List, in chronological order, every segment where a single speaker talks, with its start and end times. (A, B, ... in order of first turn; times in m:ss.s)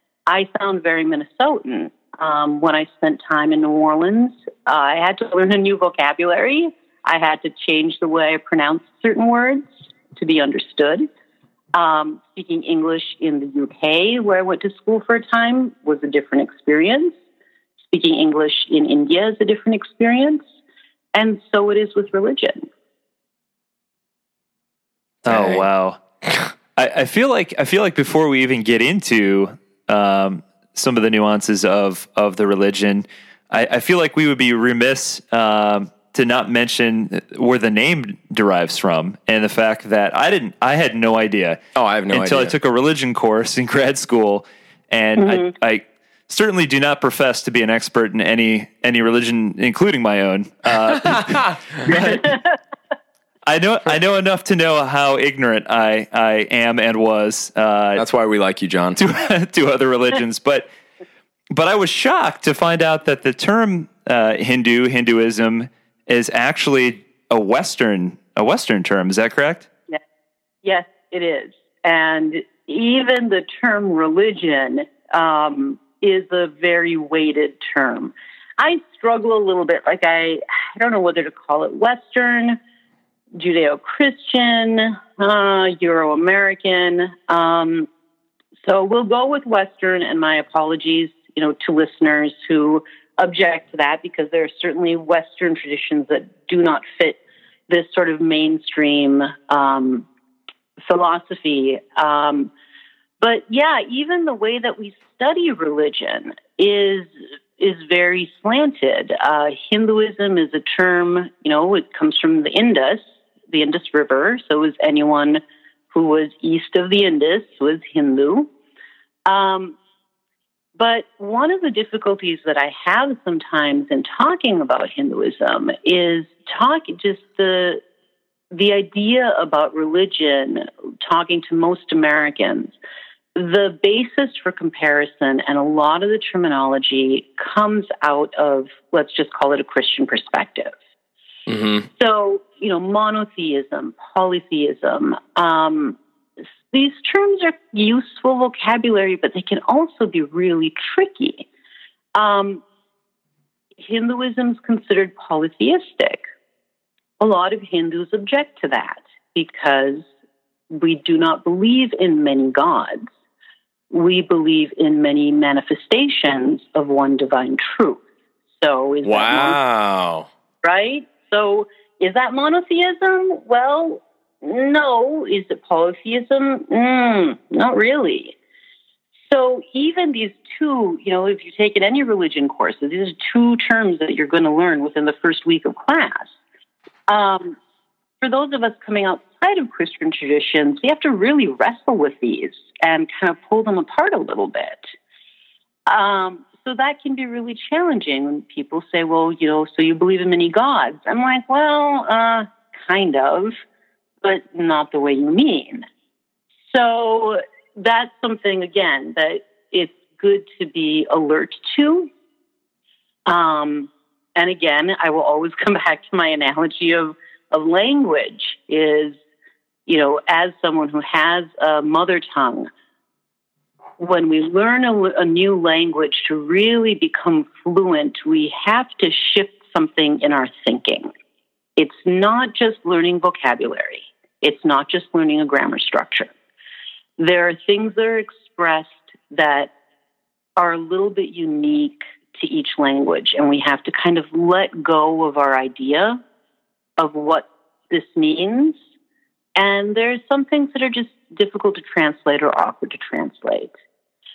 0:00.3-0:11.1 A
0:11.7-0:17.2 A
0:17.9-0:20.4 A
0:21.1-0:22.7 A
0:25.2-0:25.6 B
0:25.2-0:26.0 C
0:26.8-0:41.6 C
0:41.8-0:42.5 B
0:42.1-0:52.4 C
0:45.2-0:45.5 A
0:51.0-0:51.5 B
0:53.4-0:58.0 C
0:58.0-0:59.0 B
0:59.0-1:00.7 C
1:01.5-1:09.7 C
1:10.6-1:22.6 A
1:23.4-1:27.9 A
1:28.6-1:40.1 A
1:40.8-1:42.5 A
1:43.2-1:58.5 A
1:59.2-1:59.8 A
2:00.8-2:07.8 A
2:08.5-2:12.7 A
2:13.4-2:20.7 A
2:21.5-2:21.9 B
2:22.0-2:26.0 A
2:26.7-2:31.5 A
2:32.2-2:32.6 A
2:33.8-2:36.2 A
2:37.2-2:40.1 A
2:40.7-2:43.1 A
2:43.9-2:48.0 A
2:48.6-2:49.6 A
2:49.0-2:50.3 B
2:50.6-2:58.4 A
2:59.3-3:06.3 A
3:07.1-3:07.6 A
3:08.2-3:14.9 A
3:15.9-3:23.6 A
3:24.2-3:25.8 A
3:26.7-3:32.1 A
3:33.2-3:39.2 A
3:39.9-3:42.7 A
3:44.0-3:51.1 A
3:51.8-3:56.3 A
3:57.2-3:59.7 A
4:00.6-4:06.2 A
4:07.0-4:08.8 A
4:09.6-4:13.7 A